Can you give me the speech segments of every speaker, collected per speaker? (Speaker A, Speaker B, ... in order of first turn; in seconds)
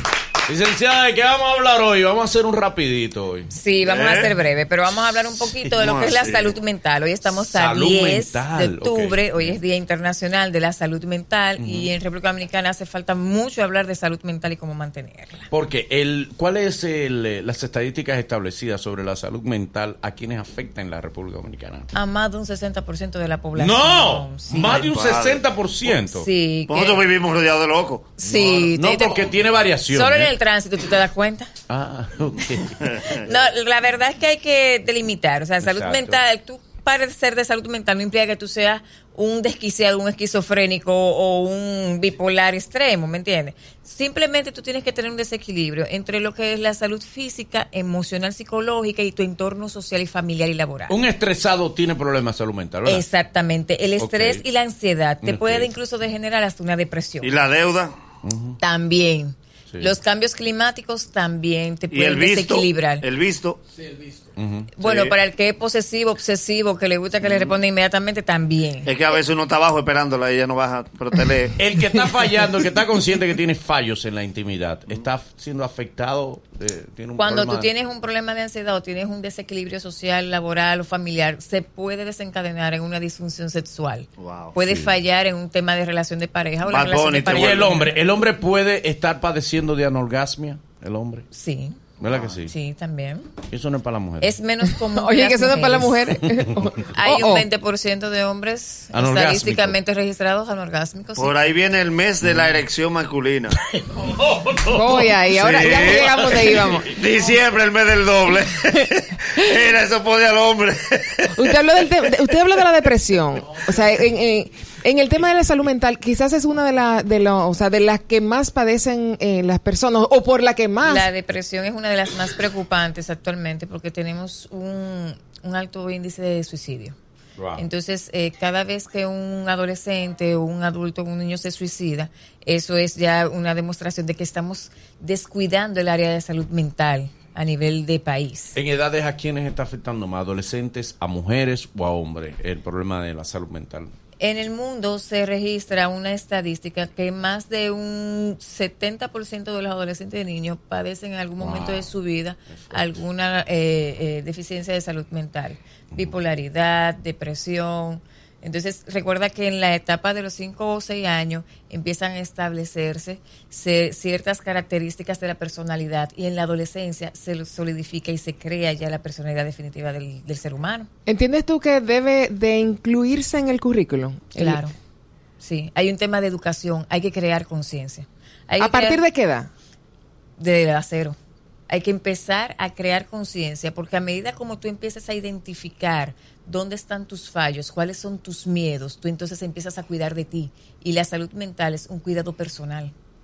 Speaker A: 0.5-3.5, 7.2-9.6, 11.6-11.9, 15.5-21.9, 23.6-26.3, 28.2-30.3, 31.7-32.8, 35.6-36.2, 50.9-53.0, 54.0-54.4, 55.2-55.7, 58.2-58.6, 59.7-60.0, 64.4-64.7, 71.6-77.7, 84.6-85.0, 87.3-91.3, 92.0-92.5, 93.5-94.3, 98.9-99.8, 102.2-102.6, 103.8-106.8, 127.4-127.7, 138.6-143.9, 151.4-151.9, 152.5-153.0, 155.9-156.2
Speaker B: 3.5-15.5, 21.9-24.9, 26.1-27.1, 28.2-29.2, 29.9-31.5, 33.2-51.0, 52.9-57.3, 58.6-63.1, 64.8-68.9, 77.2-88.0, 91.3-91.8, 92.5-93.3, 94.2-96.2, 96.9-101.4, 120.8-127.0, 127.6-138.6, 144.2-170.9, 174.4-174.7, 175.4-179.0, 180.4-181.2, 181.7-192.9
Speaker C: 3.8-4.4, 5.8-6.6, 24.6-25.4, 26.7-28.1, 32.8-33.2, 57.2-57.9, 61.9-63.6, 64.8-65.1, 67.2-67.5, 68.9-71.6, 84.2-84.5, 86.6-87.9, 101.2-103.6, 105.3-106.2, 106.9-111.4
Speaker D: 94.9-97.5, 104.7-106.9, 111.3-121.1, 171.1-174.6, 178.6-179.5